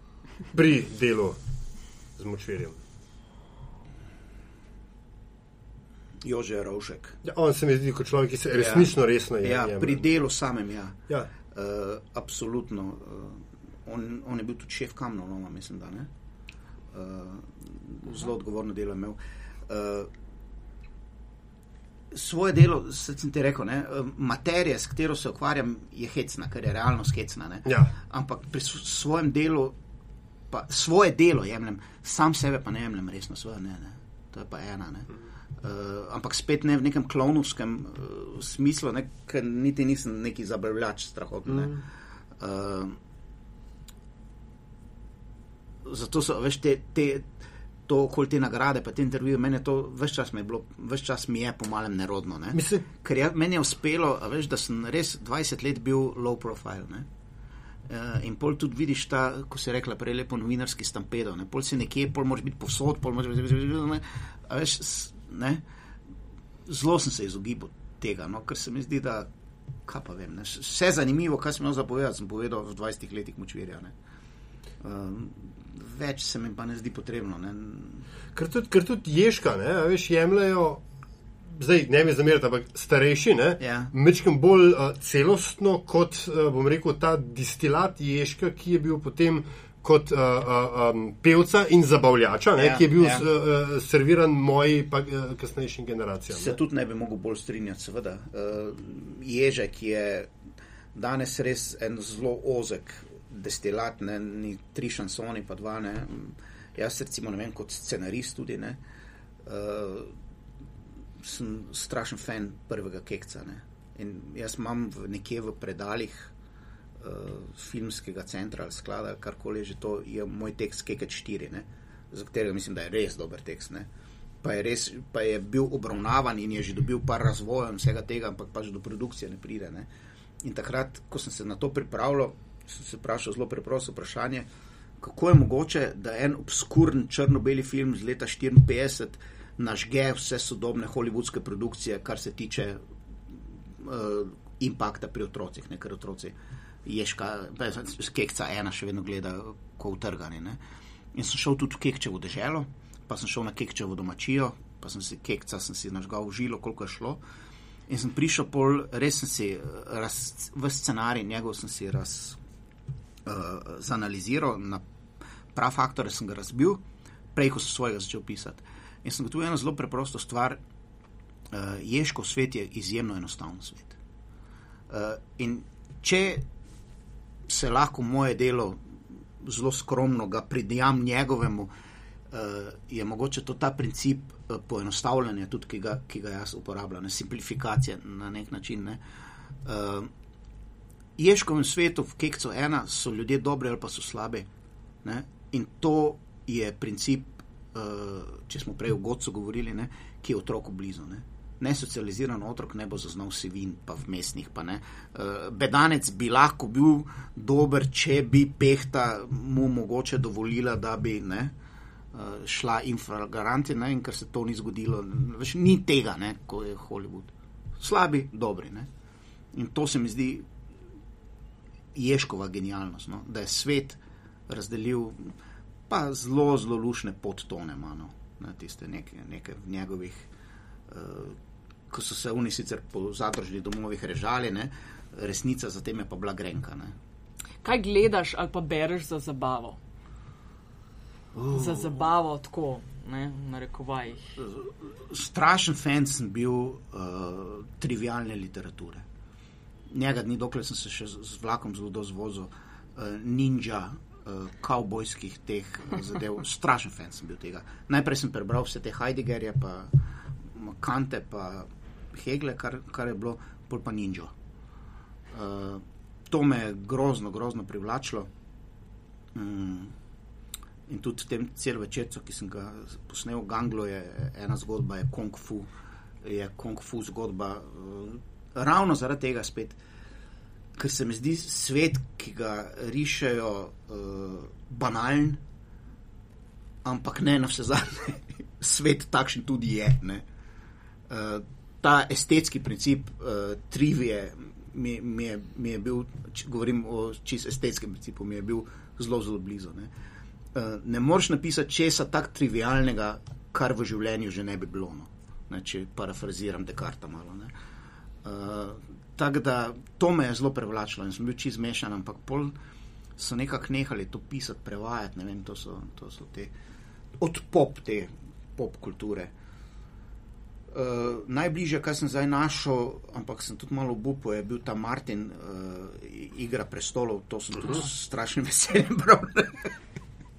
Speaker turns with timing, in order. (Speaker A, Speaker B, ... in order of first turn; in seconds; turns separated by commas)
Speaker A: 0.5-1.4, Speaker A: 2.2-2.8, Speaker B: 6.2-7.2, Speaker A: 7.2-10.0, Speaker B: 8.6-8.9, Speaker B: 9.4-11.0, Speaker B: 11.5-16.1, Speaker B: 16.9-20.1, Speaker B: 22.1-29.7, Speaker A: 27.6-27.9, Speaker B: 30.5-35.1, Speaker B: 35.6-41.8, Speaker B: 42.4-43.0, Speaker B: 45.8-47.3, Speaker B: 47.9-57.1, Speaker A: 52.5-52.8, Speaker B: 57.9-65.6, Speaker B: 66.7-69.3, Speaker B: 69.8-73.9, Speaker B: 74.8-78.1, Speaker A: 78.3-80.8, Speaker A: 81.5-96.6, Speaker B: 83.6-83.9, Speaker B: 92.6-93.2, Speaker B: 96.3-100.3, Speaker B: 100.9-108.8, Speaker B: 109.4-110.1, Speaker B: 111.2-116.3, Speaker B: 117.0-123.9, Speaker B: 124.4-129.9, Speaker B: 130.4-134.5, Speaker B: 135.0-142.8, Speaker B: 143.3-150.6, Speaker B: 151.1-157.2, Speaker B: 157.9-162.4, Speaker B: 163.2-164.8, Speaker B: 165.5-166.8, Speaker B: 167.3-170.6, Speaker B: 171.5-174.0, Speaker B: 174.9-176.4, Speaker B: 177.5-178.8, Speaker B: 179.4-181.7, Speaker B: 182.3-189.0, Speaker B: 189.6-190.1, Speaker B: 191.2-194.5, Speaker B: 195.0-211.5, Speaker B: 212.1-218.9, Speaker B: 219.5-220.4, Speaker B: 221.9-225.3, Speaker B: 225.9-230.3, Speaker B: 230.9-231.4, Speaker B: 231.9-236.9, Speaker C: 237.6-239.8, Speaker B: 241.3-241.9, Speaker C: 241.5-244.3, Speaker B: 244.4-249.0, Speaker B: 249.9-260.0, Speaker B: 260.5-264.3, Speaker B: 265.3-268.3, Speaker B: 269.3-269.9, Speaker B: 270.9-275.7, Speaker B: 276.2-279.8, Speaker B: 280.8-285.4, Speaker B: 286.8-290.2, Speaker B: 291.1-299.9, Speaker B: 300.5-307.5, Speaker B: 308.2-312.5, Speaker B: 313.2-316.5, Speaker B: 317.2-319.3, Speaker B: 320.7-329.8